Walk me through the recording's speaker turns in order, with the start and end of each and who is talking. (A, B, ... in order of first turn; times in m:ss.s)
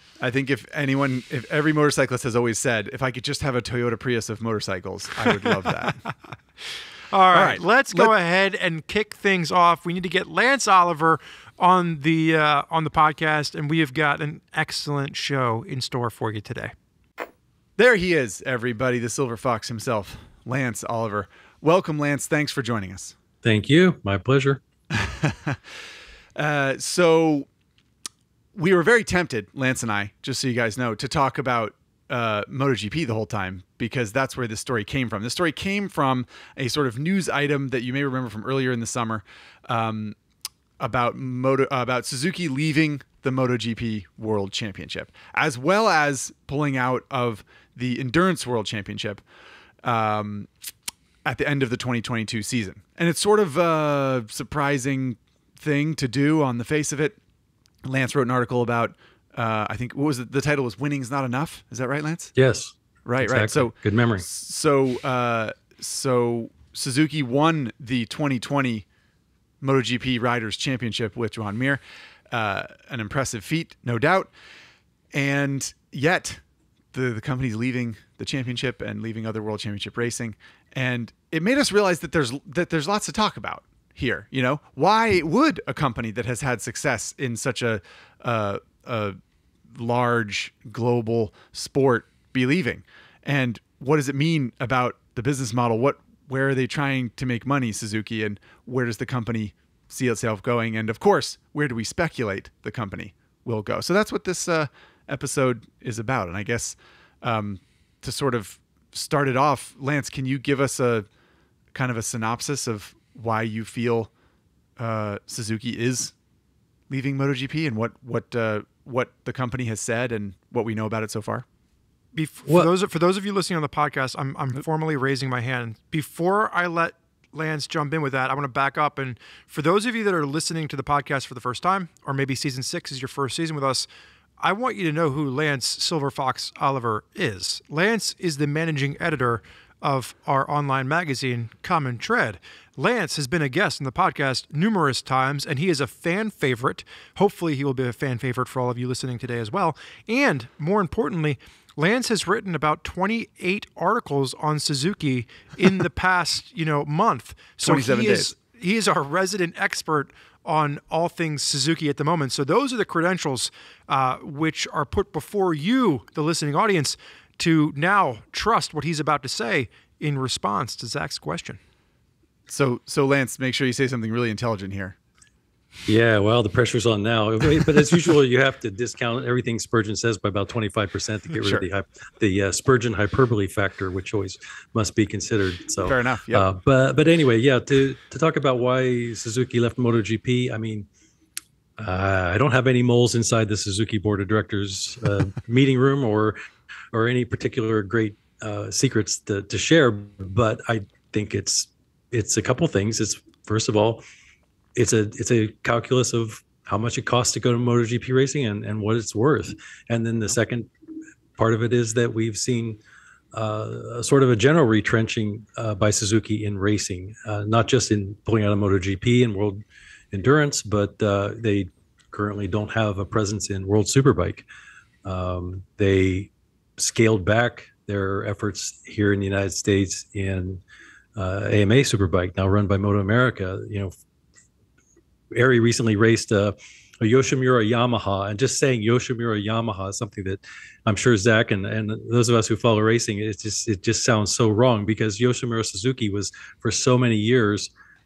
0:00.2-0:06.1 A
0:07.1-0:16.7 B
0:07.3-0:08.1 A
0:17.8-0:23.1 A
0:23.4-0:24.6 C
0:24.9-0:25.6 A
0:26.4-0:27.5 A
0:28.5-0:40.2 A
0:40.8-0:49.2 A
0:49.8-0:50.5 A
0:51.2-0:57.2 A
0:57.8-1:02.3 A
1:02.4-1:04.2 C
1:03.0-1:08.8 A
1:09.6-1:14.3 A
1:15.1-1:16.4 A
1:16.9-1:29.2 A
1:29.7-1:51.1 A
1:51.7-1:54.1 A
1:54.8-1:56.1 A
1:56.9-2:01.4 A
2:02.1-2:13.8 B
2:02.4-2:02.7 C
2:14.4-2:51.6 B
2:37.6-2:38.3 A
2:52.5-2:55.0 A
2:55.9-3:10.9 C
3:05.8-3:06.5 A
3:11.8-3:16.4 C
3:16.9-3:24.0 C
3:24.8-3:30.7 C
3:31.4-3:32.8 C
3:33.3-3:39.6 C
3:40.1-3:44.4 C
3:45.0-3:50.6 C
3:51.2-3:53.9 C
3:55.3-4:07.7 C